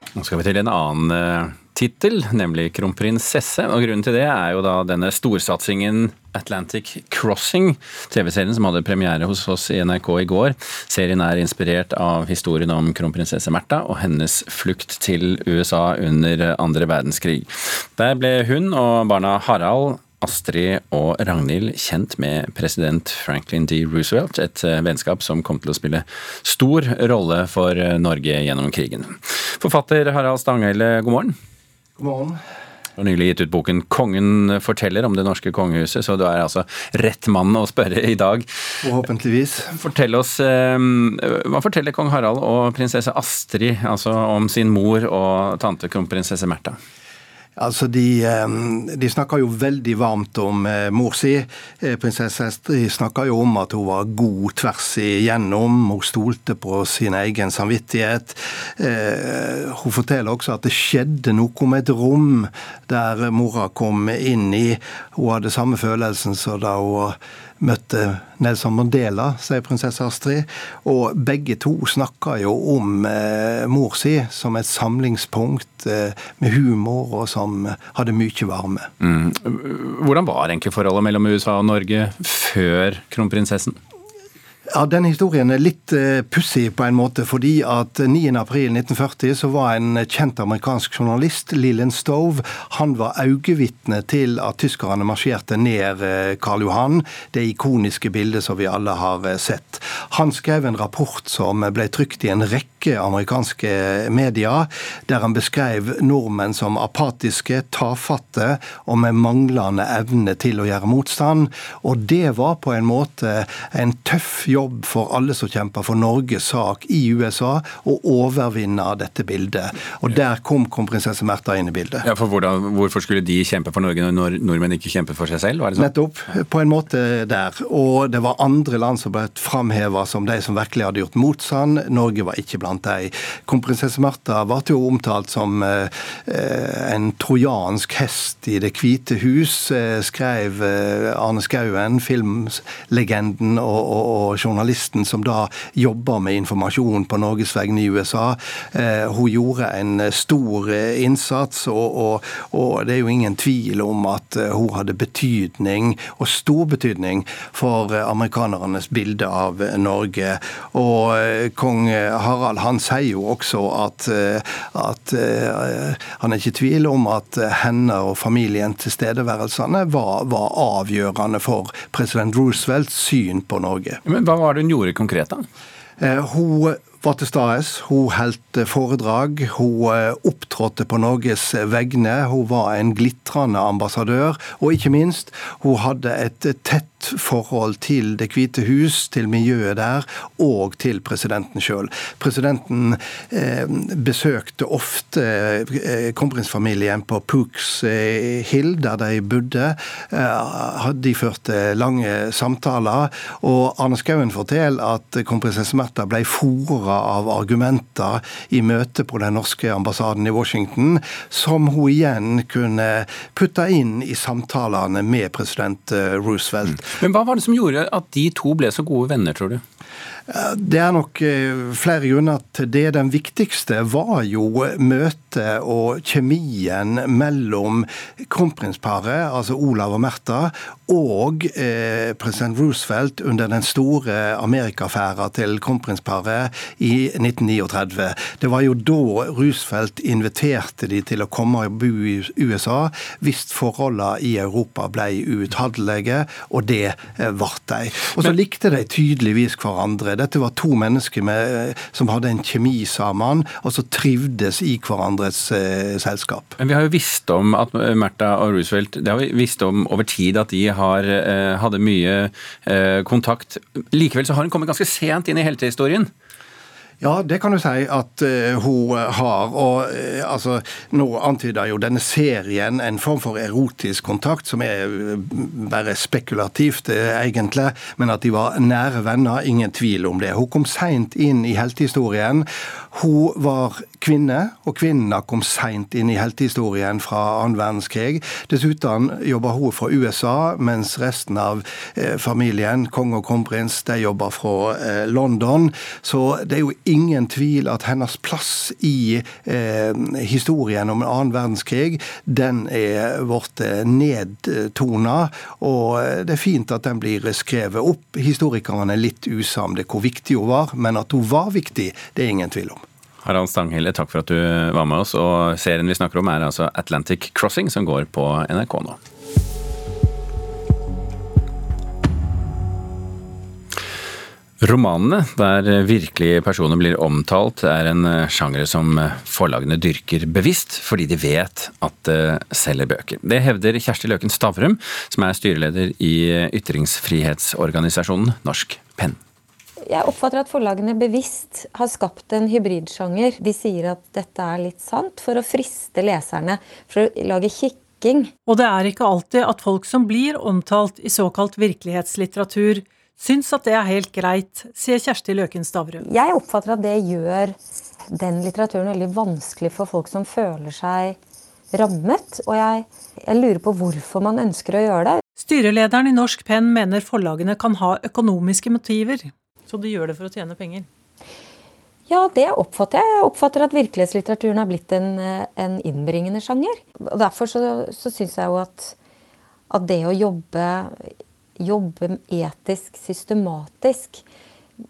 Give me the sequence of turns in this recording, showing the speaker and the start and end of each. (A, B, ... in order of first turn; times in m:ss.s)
0:00.1-0:31.3 A
0:32.0-0:32.4 B
0:33.0-0:38.5 A
0:38.8-0:39.7 B
0:39.8-0:46.8 A
0:47.6-1:18.9 B
1:19.0-1:23.8 A
1:24.7-2:02.1 B
2:02.0-2:05.9 A
2:05.8-2:54.0 B
2:54.0-2:55.4 A
2:56.0-3:36.9 B
3:36.8-3:39.6 A
3:40.3-4:16.5 B
4:16.6-4:26.1 A
4:27.0-5:12.8 B
5:13.2-5:19.0 A
5:24.6-5:39.2 A
5:39.9-5:48.3 C
5:48.4-5:56.0 D
5:56.0-5:57.5 C
5:58.1-6:01.2 C
6:01.7-6:05.2 C
6:05.4-6:10.9 D
6:12.1-6:18.9 C
6:19.7-6:20.9 C
6:21.6-6:24.2 C